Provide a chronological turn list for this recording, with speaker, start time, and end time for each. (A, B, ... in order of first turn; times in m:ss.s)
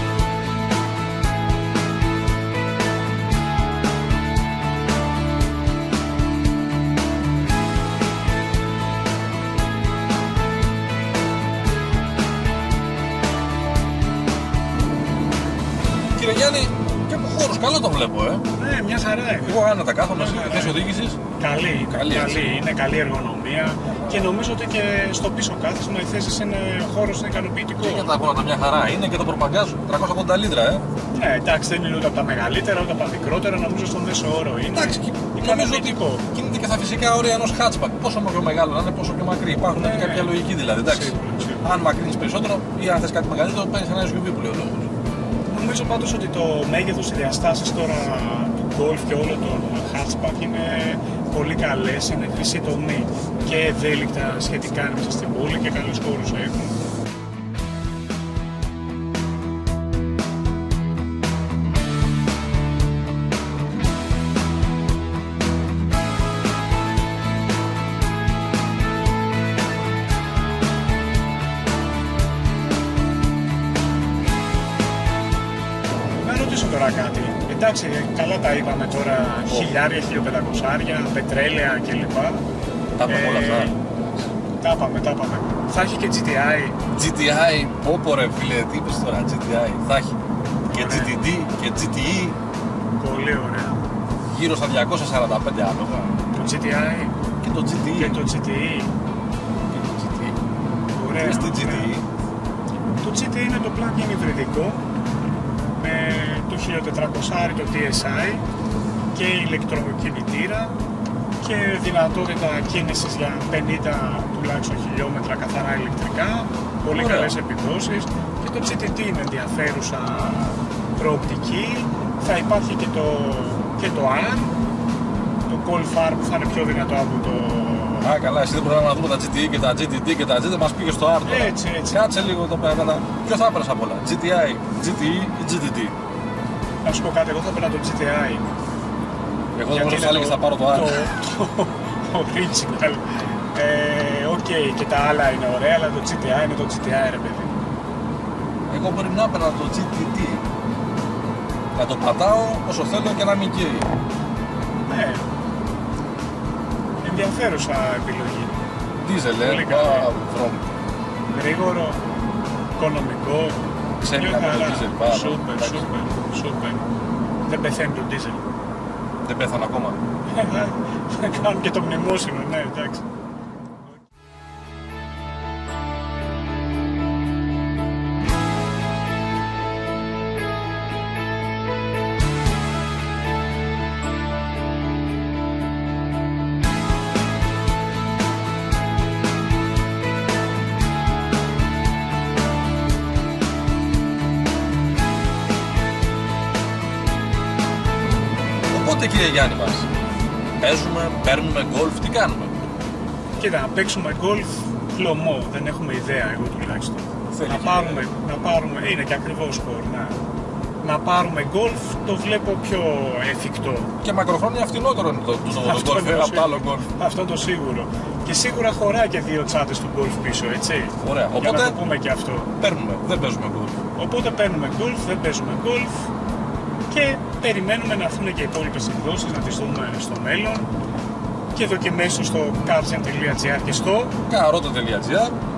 0:16.1-0:18.4 A
0:18.5-0:20.8 B
0:19.4-0:21.2 A
0:21.4-0:28.1 B
0:21.9-0:22.6 A
0:27.8-0:30.8 A
0:31.1-0:36.2 B
0:34.7-0:44.9 A
0:39.7-0:41.6 B
0:45.5-0:56.8 B
1:16.2-1:22.4 B
1:23.0-1:23.9 A
1:23.0-1:23.8 B
1:24.6-1:26.8 B
1:26.9-1:30.2 A
1:30.6-1:31.1 B
1:30.7-1:32.4 A
1:33.0-1:33.8 B
1:34.3-1:36.2 A
1:36.3-1:37.1 B
1:37.4-1:38.2 A
1:37.9-1:38.9 B
1:39.7-1:40.4 A
1:40.9-1:41.9 B
1:41.2-1:42.0 A
1:43.0-1:44.8 B
1:45.8-1:48.4 B
1:49.1-1:50.8 B
1:51.4-2:04.5 B
1:56.9-1:57.4 A
2:05.4-2:08.2 B
2:08.0-2:15.9 A
2:11.2-2:12.0 B
2:16.8-2:18.4 B
2:19.5-2:21.0 A
2:19.7-2:27.6 B
2:28.7-2:30.4 A
2:31.7-2:33.9 A
2:34.8-2:35.2 B
2:37.0-2:38.6 B
2:39.0-2:40.7 A
2:39.4-2:40.1 B
2:41.3-2:42.0 B
2:42.8-2:43.6 B
2:44.0-2:45.9 A
2:44.1-2:46.8 B
2:47.4-2:48.4 B
2:49.2-2:50.0 A
2:50.3-2:53.0 B
3:18.7-3:19.9 A
3:20.6-3:22.6 A
3:23.4-3:30.2 B
3:27.3-3:28.0 A
3:30.8-3:33.9 B
3:34.0-3:36.9 A
3:35.5-3:42.5 B
3:41.0-3:41.8 A
3:42.6-3:43.8 A
3:44.0-3:46.1 B
3:46.9-3:50.7 B
3:51.5-3:54.2 B
3:54.3-3:55.3 A